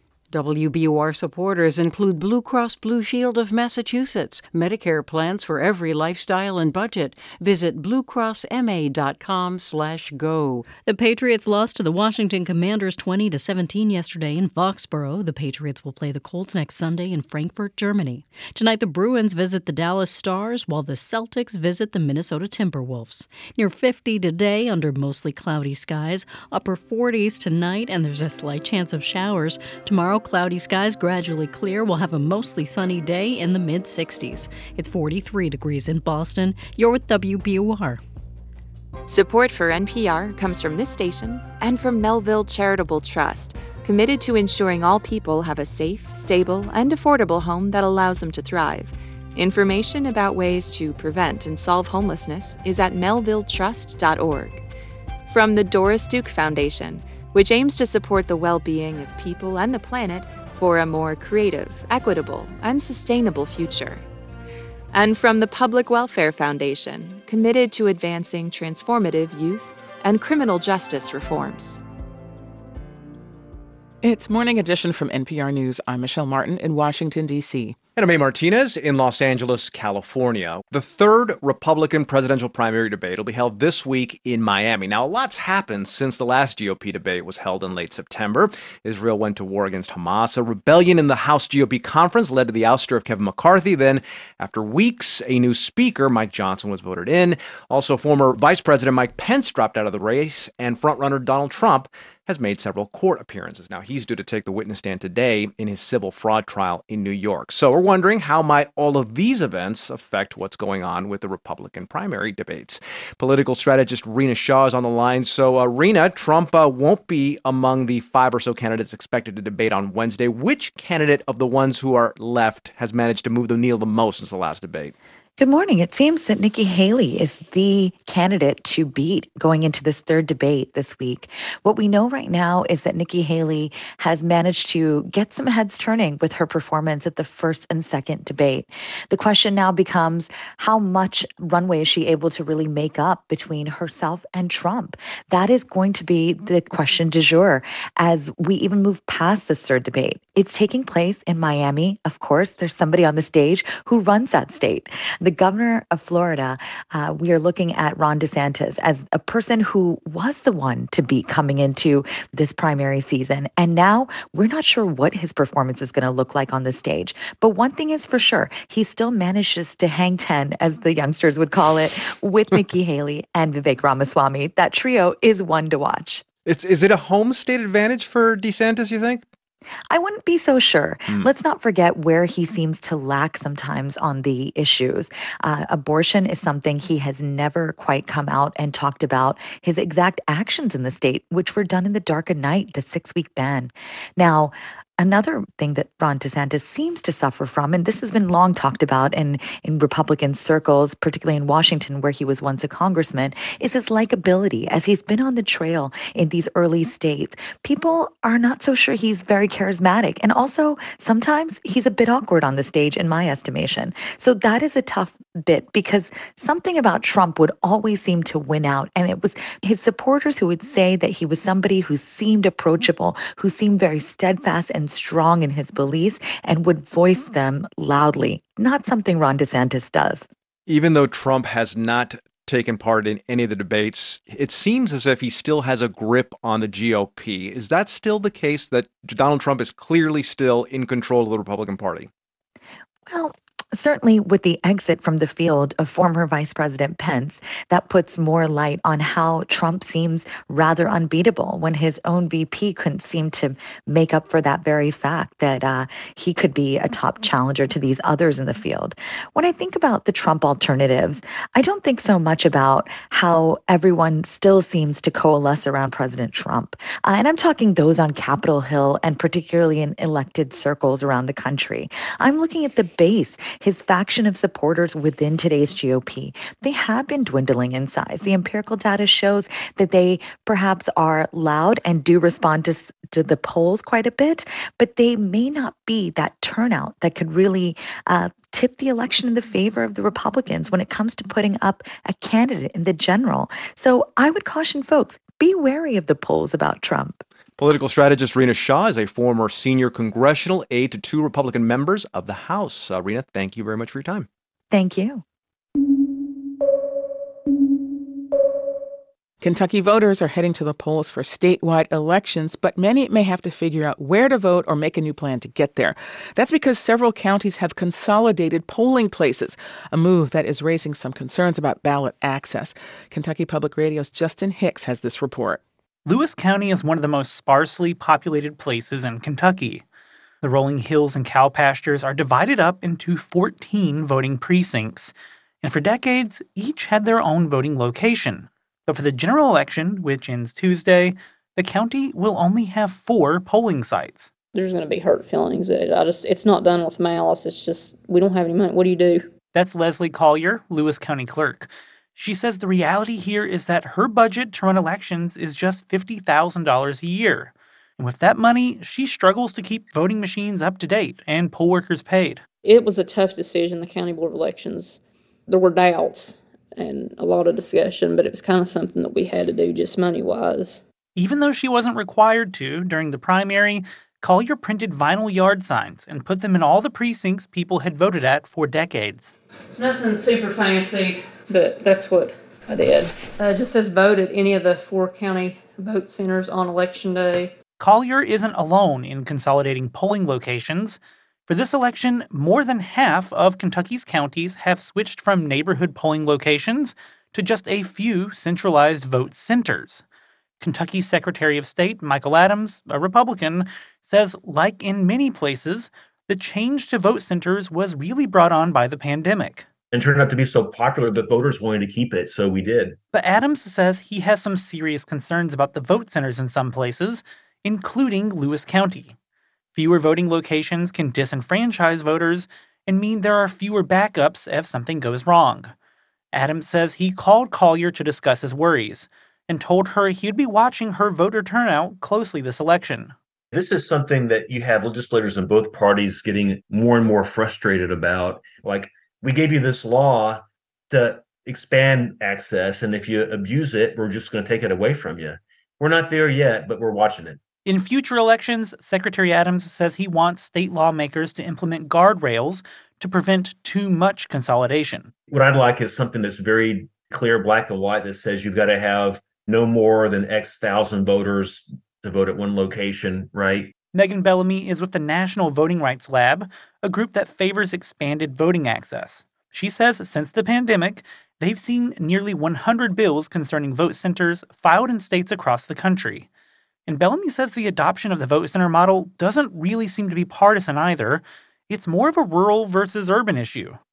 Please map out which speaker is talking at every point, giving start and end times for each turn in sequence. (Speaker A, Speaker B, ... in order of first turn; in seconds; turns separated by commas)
Speaker A: 0.3-10.7, Speaker B: 10.8-38.0, Speaker C: 39.1-54.6, Speaker C: 55.3-64.0, Speaker C: 64.9-71.8, Speaker D: 74.0-77.8, Speaker E: 78.0-124.9, Speaker F: 125.4-176.2, Speaker E: 176.4-179.2, Speaker F: 179.9-230.3, Speaker E: 230.7-242.1, Speaker F: 243.1-297.2, Speaker E: 297.6-304.3, Speaker F: 304.7-305.2, Speaker D: 309.4-325.6, Speaker G: 326.1-329.8, Speaker G: 330.4-344.3, Speaker H: 344.6-349.2, Speaker G: 349.5-362.4, Speaker H: 362.7-364.9, Speaker H: 365.5-370.8, Speaker G: 371.1-379.3, Speaker H: 379.8-387.5, Speaker G: 387.8-400.0, Speaker G: 400.6-409.7, Speaker I: 409.9-413.0, Speaker G: 413.1-419.1, Speaker G: 419.7-425.7, Speaker G: 426.3-433.1, Speaker I: 433.5-447.4, Speaker G: 447.6-455.1, Speaker I: 455.3-463.7, Speaker G: 463.9-476.3, Speaker G: 476.9-483.8